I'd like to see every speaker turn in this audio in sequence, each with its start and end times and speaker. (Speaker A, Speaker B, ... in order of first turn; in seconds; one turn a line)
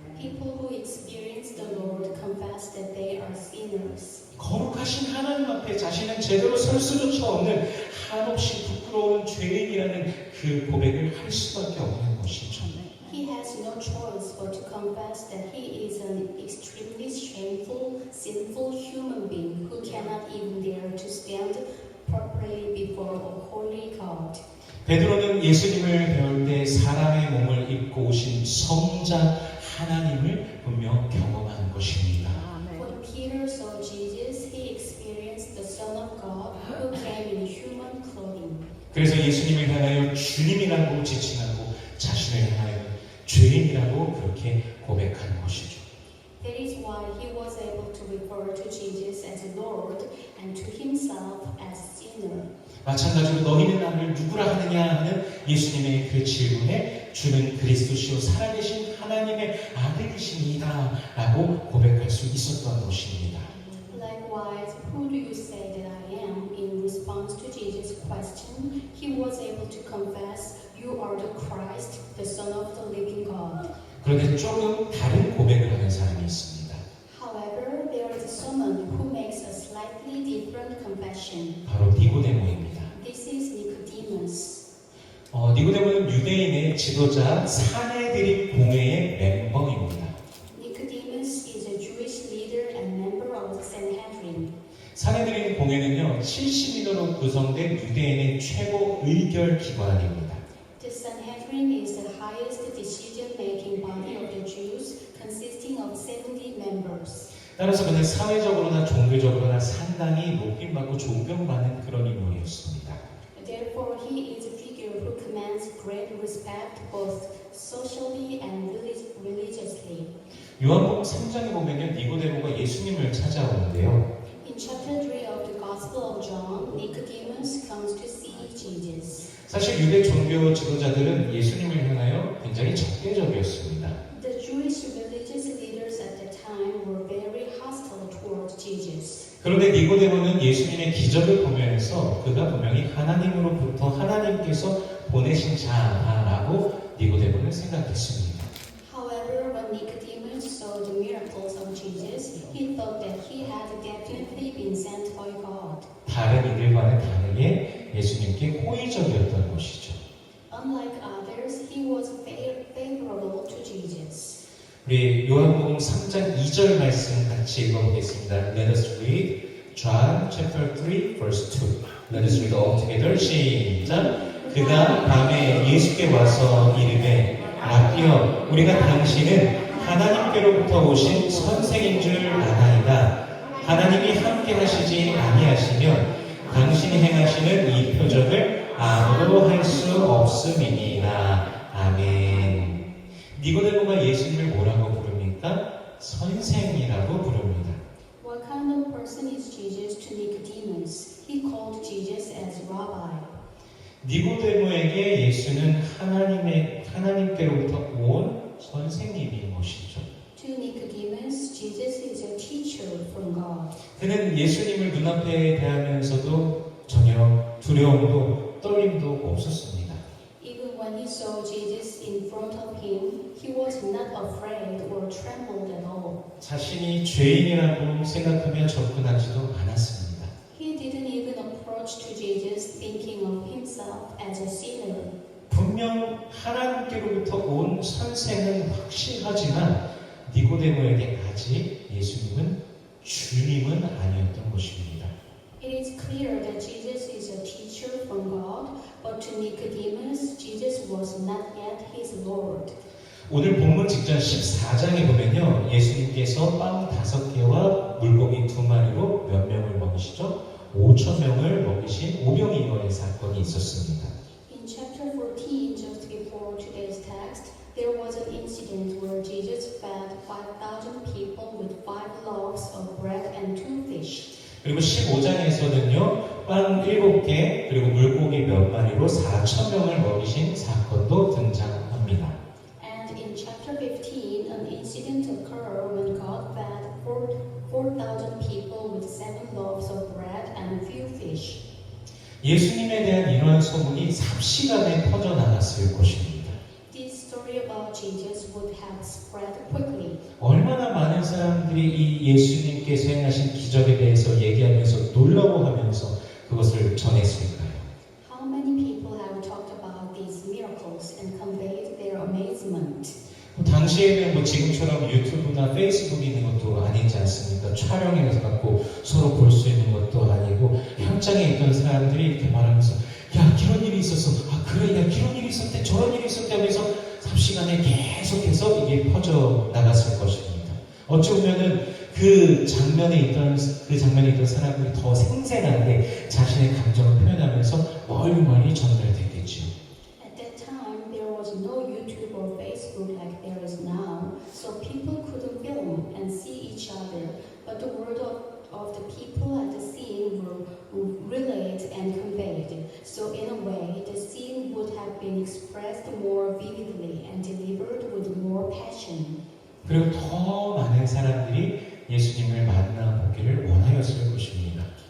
Speaker A: 0.1-4.2
Speaker B: 4.4-12.8
Speaker A: 13.0-24.4
Speaker B: 24.9-32.5
Speaker A: 32.7-38.7
Speaker B: 38.9-45.9
Speaker A: 46.4-52.5
Speaker B: 52.9-63.5
Speaker A: 63.9-73.7
Speaker B: 74.0-76.8
Speaker A: 77.1-81.6
Speaker B: 81.7-82.9
Speaker A: 82.9-84.7
Speaker B: 85.3-90.2
Speaker A: 90.5-94.5
Speaker B: 95.0-100.4
Speaker A: 100.8-107.3
Speaker B: 107.6-113.0
Speaker A: 113.4-120.1
Speaker B: 120.6-124.0
Speaker A: 124.4-129.3
Speaker B: 129.4-134.0
Speaker A: 134.1-139.3
Speaker B: 139.4-148.5
Speaker A: 148.8-155.9
Speaker B: 156.1-160.0
Speaker A: 160.5-164.4
Speaker B: 164.8-197.8
Speaker A: 198.2-203.3
Speaker B: 204.0-210.1
Speaker A: 210.4-213.8
Speaker B: 214.0-220.0
Speaker A: 220.4-226.2
Speaker B: 226.4-230.3
Speaker A: 230.5-235.1
Speaker B: 235.5-245.2
Speaker A: 245.6-252.8
Speaker B: 253.3-264.1
Speaker A: 264.5-274.3
Speaker B: 274.6-282.4
Speaker A: 282.8-291.6
Speaker B: 292.4-296.6
Speaker A: 296.9-300.2
Speaker B: 300.4-307.9
Speaker A: 308.2-313.2
Speaker B: 313.6-339.7
Speaker A: 340.2-359.4
Speaker B: 359.8-364.9